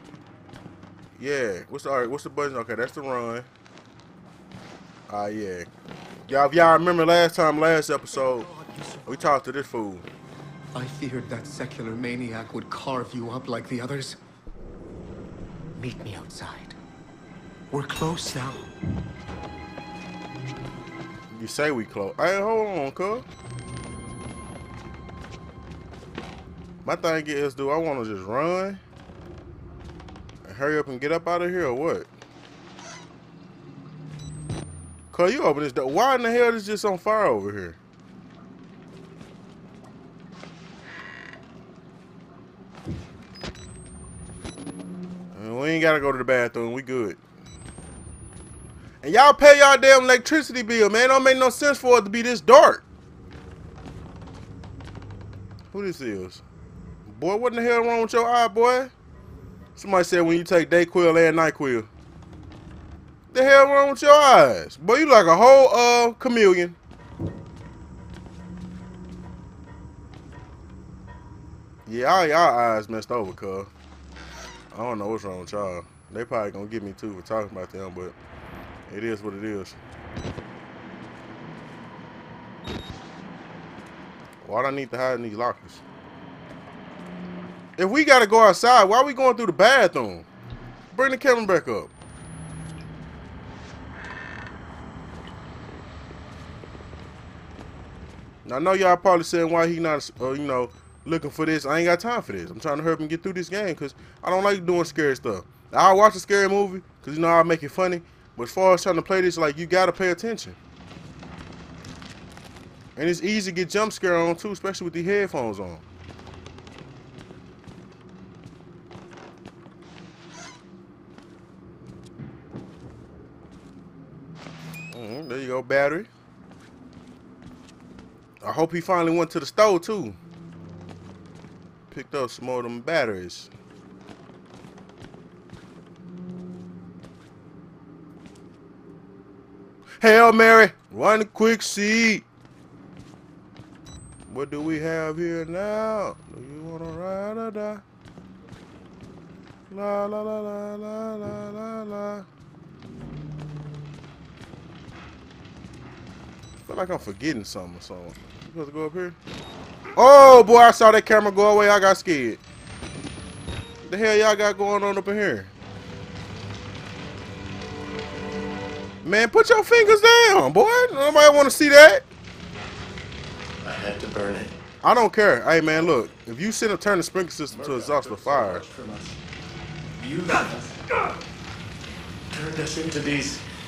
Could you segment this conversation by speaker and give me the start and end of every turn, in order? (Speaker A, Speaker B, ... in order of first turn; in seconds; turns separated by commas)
Speaker A: 1.2-3.5, Speaker A: 5.1-5.7, Speaker A: 6.3-8.5, Speaker B: 8.1-9.3, Speaker A: 9.1-10.1, Speaker B: 10.7-14.2, Speaker B: 15.8-16.8, Speaker B: 17.7-18.7, Speaker A: 21.3-23.3, Speaker A: 26.8-28.8, Speaker A: 30.4-32.1, Speaker A: 35.1-37.8, Speaker A: 45.3-47.2, Speaker A: 49.0-52.8, Speaker A: 55.7-56.4, Speaker A: 57.1-58.9, Speaker A: 59.8-61.9, Speaker A: 63.3-66.8, Speaker A: 71.9-73.7, Speaker A: 74.7-78.2, Speaker A: 78.9-79.8, Speaker A: 84.4-85.8, Speaker A: 87.8-90.3, Speaker A: 90.9-91.9, Speaker A: 98.5-110.6, Speaker A: 113.0-115.8, Speaker A: 124.9-126.1, Speaker A: 128.4-130.2, Speaker A: 131.9-133.5, Speaker A: 140.0-142.2, Speaker A: 144.3-147.8, Speaker A: 149.7-152.3, Speaker A: 156.7-159.2, Speaker A: 160.0-162.4, Speaker A: 163.8-165.5, Speaker A: 169.0-172.1, Speaker C: 173.6-174.6, Speaker A: 174.8-178.7, Speaker C: 177.5-179.2, Speaker C: 179.9-181.1, Speaker C: 182.3-183.4